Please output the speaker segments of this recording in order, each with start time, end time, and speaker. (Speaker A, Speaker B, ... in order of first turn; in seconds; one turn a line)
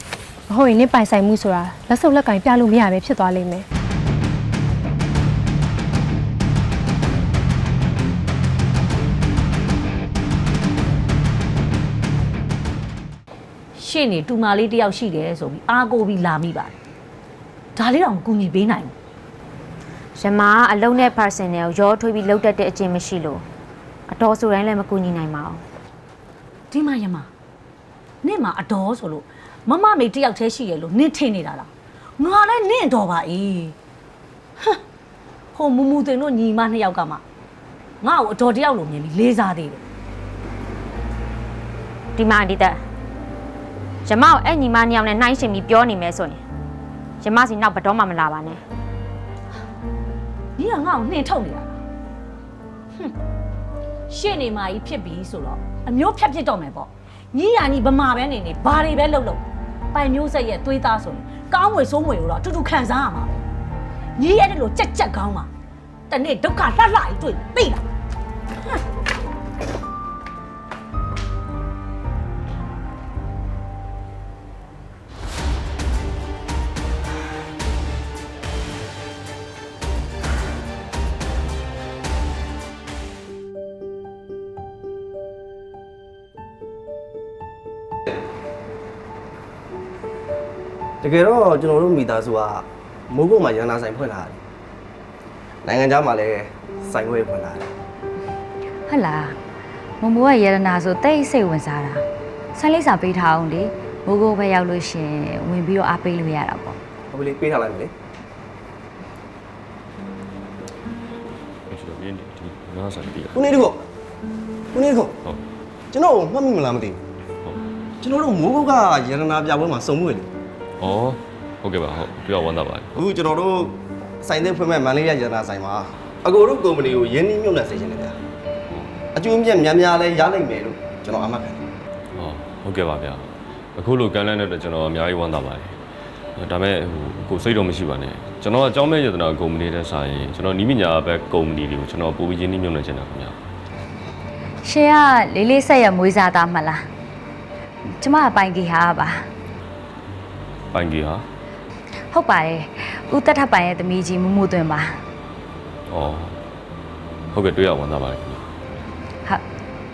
Speaker A: 0.5-3.6
Speaker B: 13.8-16.7
Speaker B: 17.8-18.9
Speaker C: 20.2-23.4
Speaker C: 24.1-25.6
Speaker B: 26.7-27.3
Speaker B: 28.2-33.7
Speaker B: 35.5-37.2
Speaker B: 38.0-39.8
Speaker C: 42.1-42.8
Speaker C: 44.0-46.4
Speaker C: 47.2-48.6
Speaker B: 50.6-51.7
Speaker B: 54.1-59.4
Speaker B: 59.9-63.4
Speaker B: 64.2-65.5
Speaker B: 66.1-67.8
Speaker D: 91.0-94.4
Speaker D: 95.6-97.7
Speaker E: 98.9-99.3
Speaker E: 100.0-102.0
Speaker E: 102.5-106.8
Speaker D: 107.1-107.9
Speaker F: 111.7-113.6
Speaker D: 113.3-113.8
Speaker D: 114.7-115.1
Speaker D: 115.9-117.0
Speaker D: 118.0-120.3
Speaker F: 120.8-123.0
Speaker D: 123.0-128.2
Speaker D: 129.1-131.6
Speaker F: 132.1-135.8
Speaker F: 136.3-143.4
Speaker E: 144.6-146.9
Speaker E: 148.0-149.3
Speaker F: 150.7-151.2
Speaker E: 152.1-155.0
Speaker F: 155.9-156.4
Speaker F: 157.3-158.6